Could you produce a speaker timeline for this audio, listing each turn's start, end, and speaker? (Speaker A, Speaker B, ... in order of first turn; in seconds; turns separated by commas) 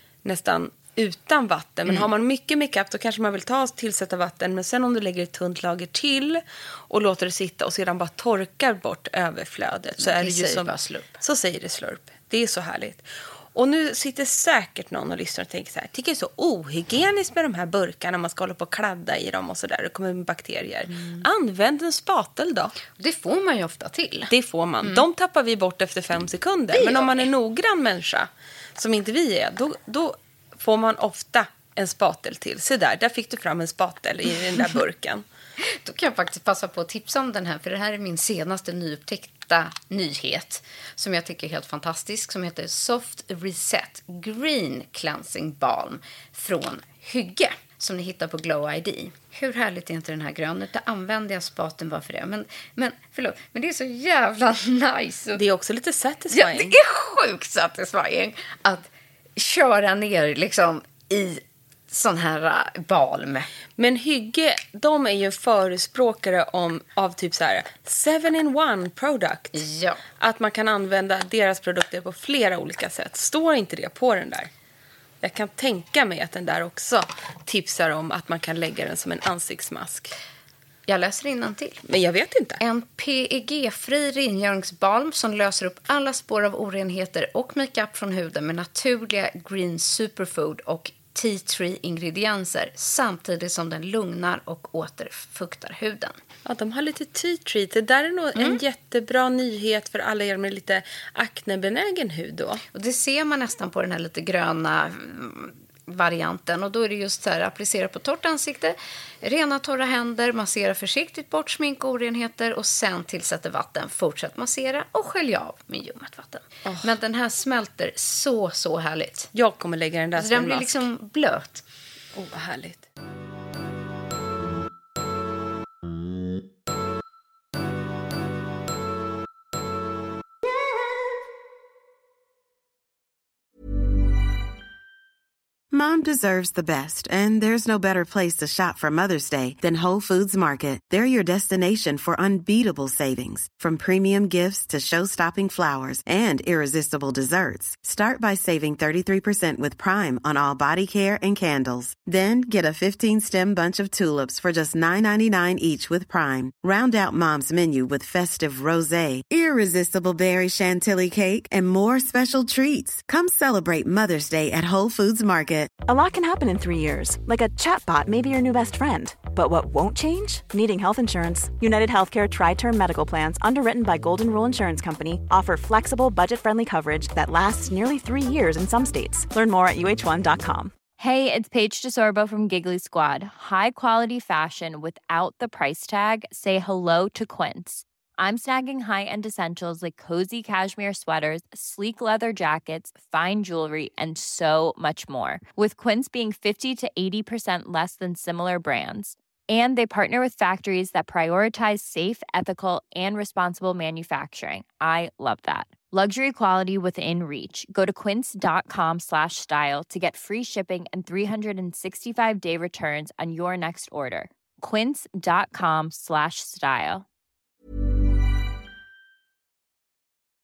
Speaker A: 0.2-22.8, Speaker B: 10.0-11.2, Speaker B: 22.9-24.3, Speaker A: 24.3-35.2, Speaker B: 26.7-27.3, Speaker B: 35.6-55.4, Speaker A: 55.4-56.8, Speaker B: 56.3-63.5, Speaker A: 63.8-69.6, Speaker B: 69.5-70.0, Speaker A: 70.2-74.5, Speaker A: 75.2-80.1, Speaker B: 80.9-81.8, Speaker A: 81.9-82.6, Speaker B: 82.6-96.2, Speaker A: 96.5-102.6, Speaker B: 98.4-98.6, Speaker B: 102.7-119.3, Speaker A: 119.3-120.8, Speaker B: 120.2-121.6, Speaker A: 122.1-122.9, Speaker C: 135.7-165.7, Speaker D: 165.8-180.7, Speaker E: 181.0-217.1